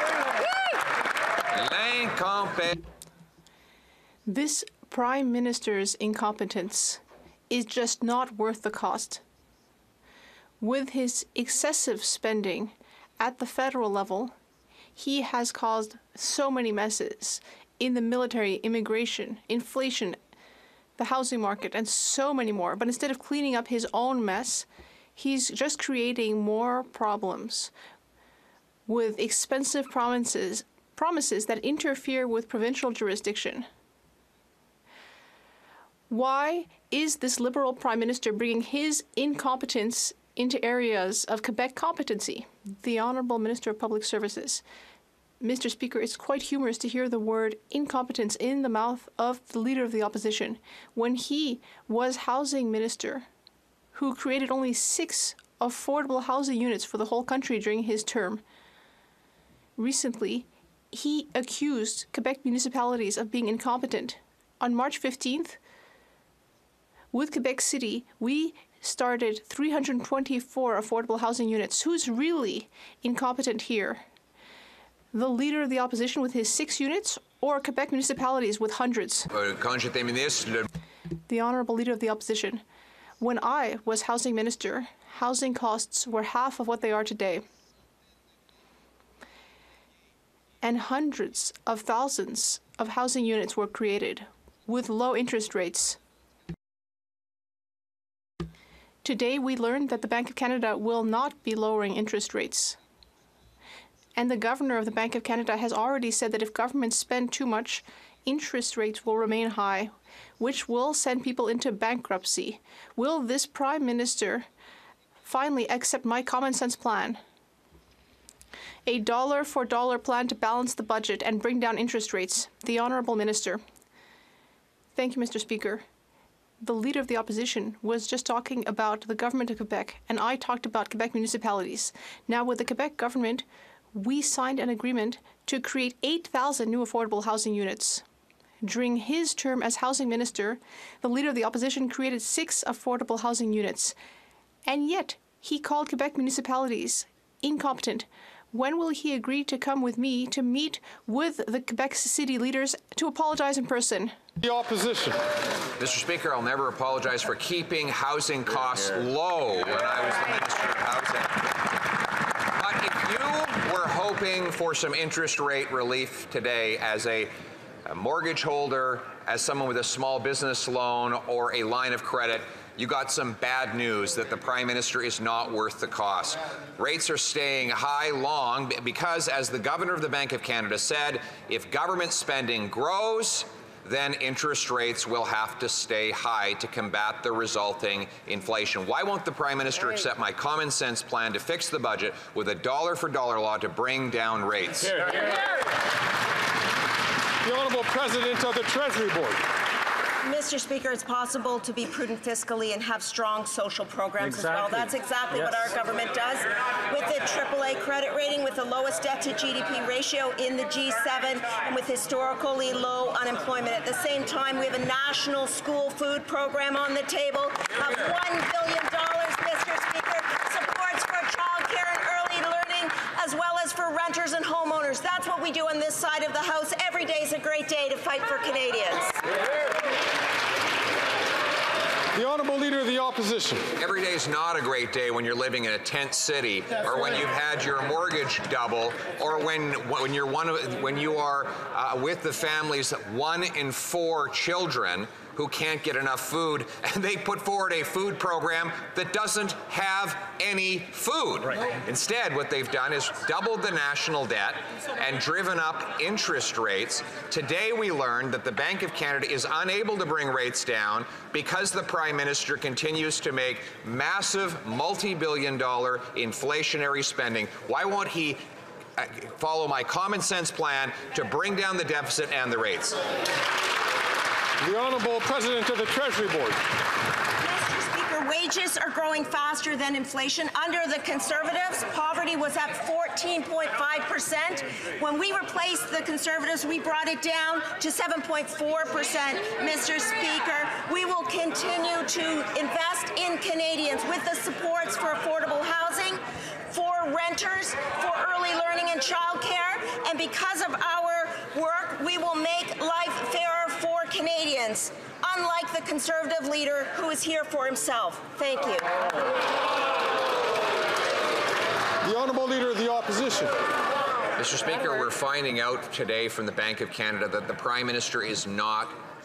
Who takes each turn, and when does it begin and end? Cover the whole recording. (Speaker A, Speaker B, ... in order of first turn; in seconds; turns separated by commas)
Speaker A: 1.5-2.8, Speaker B: 4.3-9.2, Speaker B: 10.6-14.3, Speaker B: 15.0-20.2, Speaker B: 21.0-27.7, Speaker B: 28.9-33.7, Speaker B: 36.1-44.6, Speaker B: 45.4-53.3, Speaker B: 53.9-58.4, Speaker B: 59.8-65.6, Speaker B: 67.1-74.0, Speaker B: 75.1-79.3, Speaker A: 79.3-80.7, Speaker B: 81.3-82.6, Speaker B: 83.2-87.4, Speaker B: 90.6-96.0, Speaker B: 99.0-102.8, Speaker B: 104.2-114.5, Speaker B: 115.2-117.2, Speaker B: 118.8-123.6, Speaker B: 124.9-125.8, Speaker B: 126.6-138.0, Speaker B: 138.6-143.9, Speaker B: 144.7-154.1, Speaker C: 154.4-155.2, Speaker A: 155.8-161.5, Speaker A: 162.5-167.3, Speaker A: 167.8-195.0, Speaker C: 195.0-195.2, Speaker C: 197.4-199.4, Speaker D: 200.2-229.2, Speaker C: 204.3-204.8, Speaker C: 232.1-233.7, Speaker A: 233.8-268.4, Speaker A: 269.0-273.0, Speaker C: 274.6-276.6, Speaker D: 277.4-308.9, Speaker C: 312.1-313.5, Speaker A: 314.4-319.0